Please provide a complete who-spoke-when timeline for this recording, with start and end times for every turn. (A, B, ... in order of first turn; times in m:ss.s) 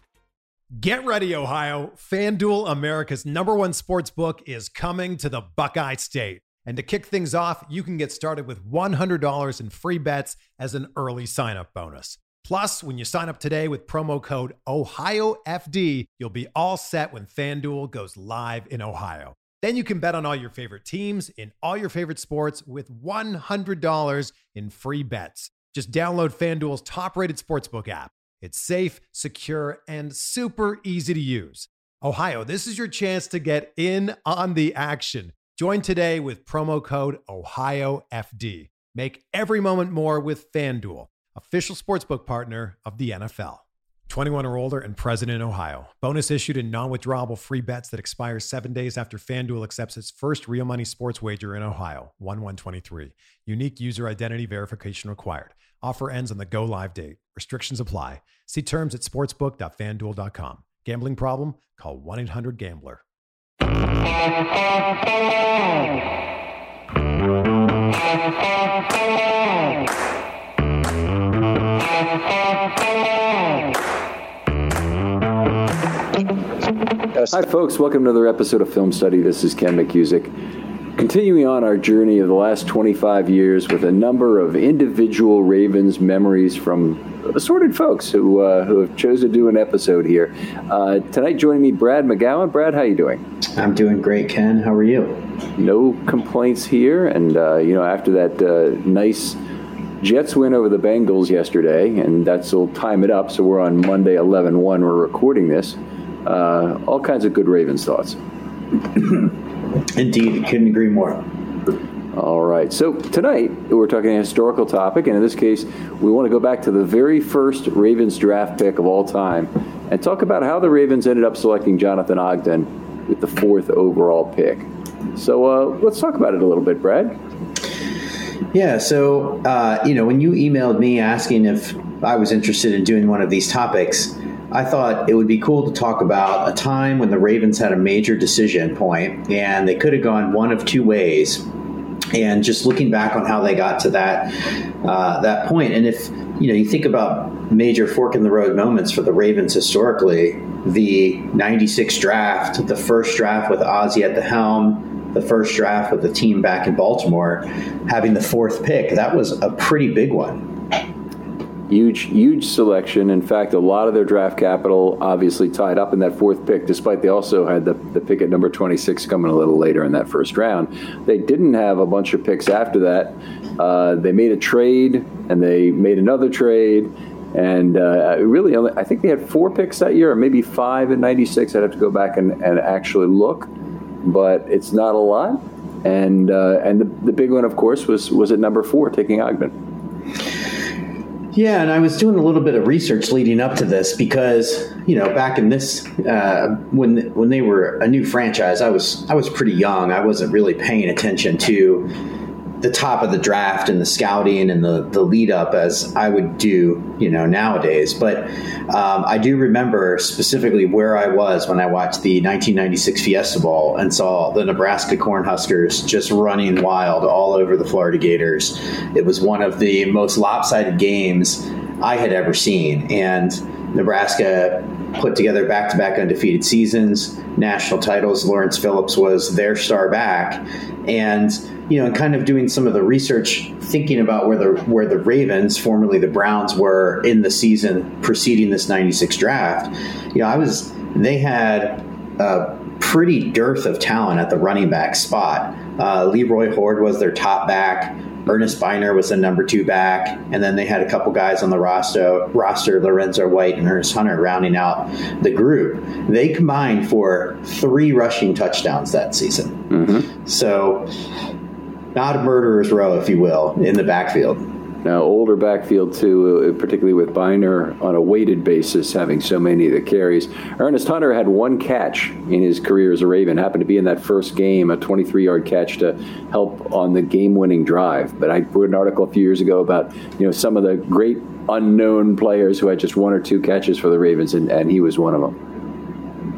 0:00.8-1:03.0 A
1:17.1-1:20.3 B
1:21.0-1:33.2 B
1:33.6-1:35.2 C
1:35.6-1:39.4 B
1:40.0-1:48.2 B
1:49.0-1:49.3 C
1:50.0-1:51.2 C
1:52.1-2:07.2 B
2:08.5-2:21.4 C
2:22.1-2:40.4 C
2:41.7-3:03.5 B
3:04.0-3:09.5 B
3:11.3-3:21.9 C
3:22.6-4:19.6 C
4:19.7-4:20.1 B
4:20.2-4:20.9 C
4:21.9-4:24.4 C
4:24.8-4:45.4 B